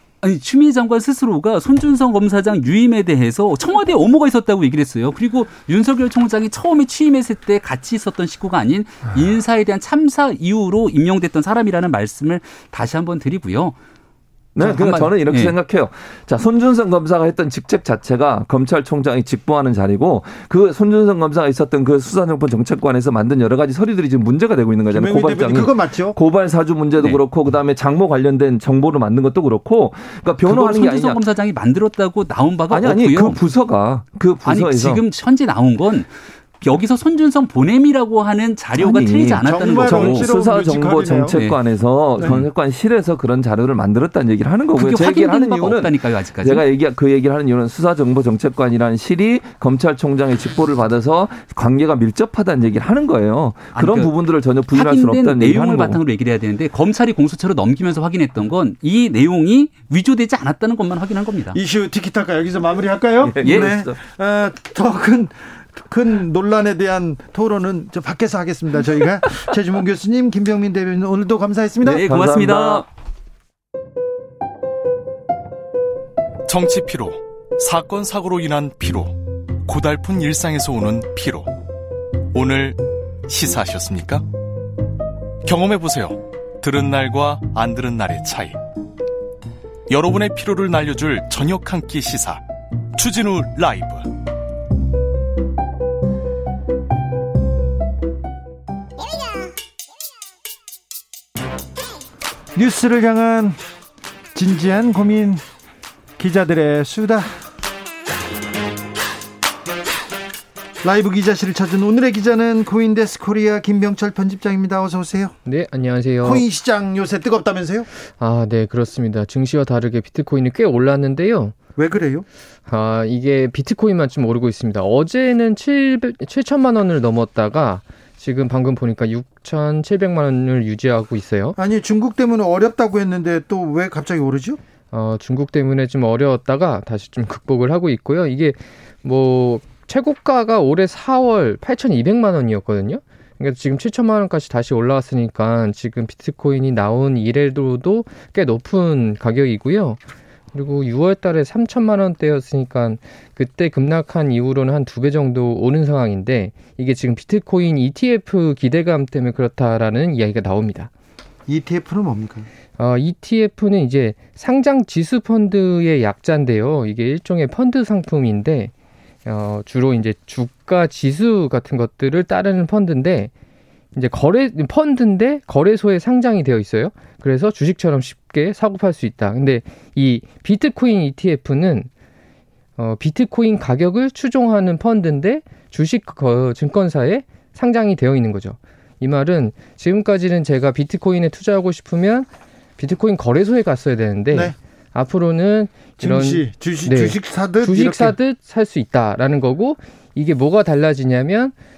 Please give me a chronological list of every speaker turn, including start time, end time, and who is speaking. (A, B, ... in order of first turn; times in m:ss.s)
0:00.2-0:13.8 A
0:14.6-0:31.2 B
0:14.6-0:15.5 A
0:24.9-0:26.2 C
0:30.5-0:33.4 A
0:32.7-0:35.0 B
0:34.4-0:36.1 A
0:36.6-0:40.3 A
0:38.8-0:56.0 B
0:39.4-0:41.4 C
0:42.2-0:42.5 A
0:44.8-0:46.6 A
0:53.7-0:54.1 A
0:54.7-1:01.6 A
1:01.5-1:12.0 C
1:03.2-1:04.0 B
1:03.4-1:03.7 A
1:11.8-1:12.9 B
1:12.1-1:12.9 A
1:16.5-1:21.5 D
1:22.3-1:24.2 D
1:25.4-1:28.6 D
1:29.9-1:32.4 D
1:33.0-1:34.1 D
1:42.6-1:43.6 C
1:44.3-1:45.4 C
1:46.2-1:47.4 C
1:50.8-1:55.4 C
1:55.4-1:56.4 E
1:56.2-1:57.9 C
1:58.2-2:01.6 E
2:01.8-2:02.3 C
2:02.7-2:11.6 E
2:11.6-2:14.6 C
2:14.9-2:30.0 E
2:30.5-2:40.9 E
2:41.5-2:42.5 C
2:42.8-2:48.7 E
2:49.2-2:53.3 E
2:53.9-3:01.9 E
3:02.8-3:21.5 E
3:16.0-3:18.1 C